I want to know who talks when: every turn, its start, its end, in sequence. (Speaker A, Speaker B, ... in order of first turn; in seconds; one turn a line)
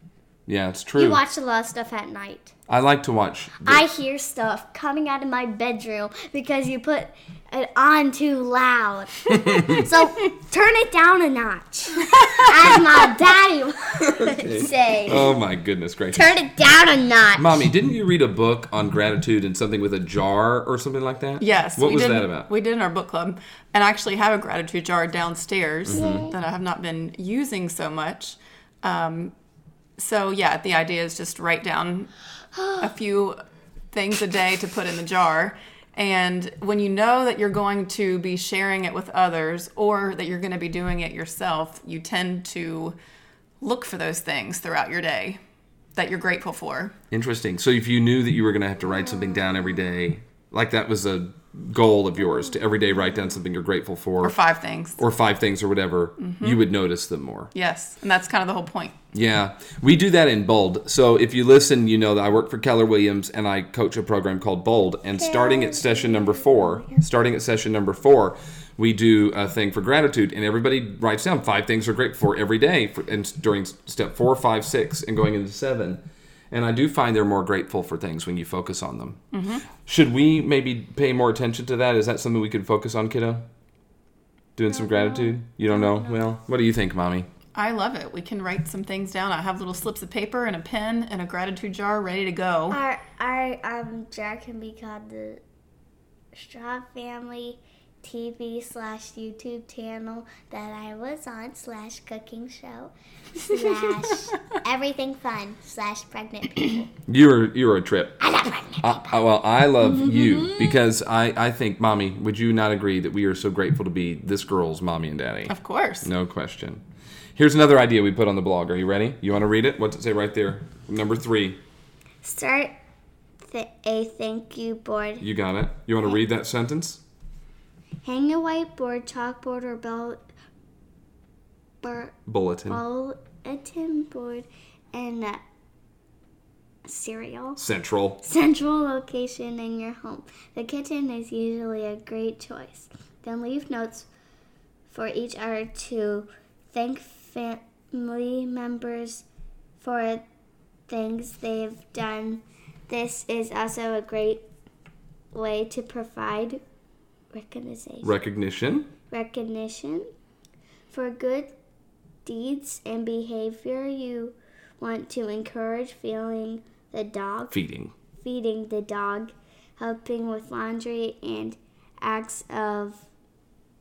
Speaker A: 0.5-1.2
Speaker B: 1.0-2.5
Speaker A: 2.7-3.9
Speaker B: 3.6-15.4
Speaker A: 9.3-9.8
Speaker A: 14.2-16.4
Speaker B: 16.1-17.6
Speaker A: 17.4-22.5
Speaker C: 21.4-29.3
Speaker A: 25.9-26.3
Speaker B: 25.9-26.4
Speaker C: 30.0-32.1
Speaker B: 32.5-32.9
Speaker C: 32.8-33.4
Speaker C: 33.9-43.0
Speaker C: 43.6-45.4
Speaker C: 46.0-46.9
Speaker A: 47.1-54.4
Speaker C: 54.2-55.0
Speaker A: 55.0-57.5
Speaker C: 56.2-56.6
Speaker C: 57.5-58.9
Speaker A: 59.1-79.2
Speaker B: 65.1-67.0
Speaker C: 79.3-79.6
Speaker A: 79.9-83.5
Speaker A: 84.6-87.3
Speaker B: 84.7-86.2
Speaker C: 87.5-92.8
Speaker B: 92.7-95.4
Speaker B: 96.3-106.9
Speaker A: 107.1-116.8
Speaker B: 108.2-109.2
Speaker B: 109.8-110.8
Speaker C: 115.5-116.1
Speaker A: 117.4-121.6
Speaker B: 122.2-122.8
Speaker B: 123.4-125.2
Speaker A: 125.2-127.0
Speaker B: 128.0-130.2
Speaker B: 131.8-132.2
Speaker A: 132.3-132.8
Speaker B: 132.7-135.4
Speaker B: 136.9-137.6
Speaker A: 137.6-138.2
Speaker B: 138.2-144.1
Speaker B: 144.9-149.2
Speaker B: 149.8-150.2
Speaker B: 150.9-154.4
Speaker B: 155.3-156.6
Speaker B: 157.3-158.1
Speaker A: 158.0-158.9
Speaker B: 159.1-160.1
Speaker B: 160.9-161.5
Speaker B: 162.2-167.6
Speaker A: 167.5-167.9
Speaker B: 168.2-173.1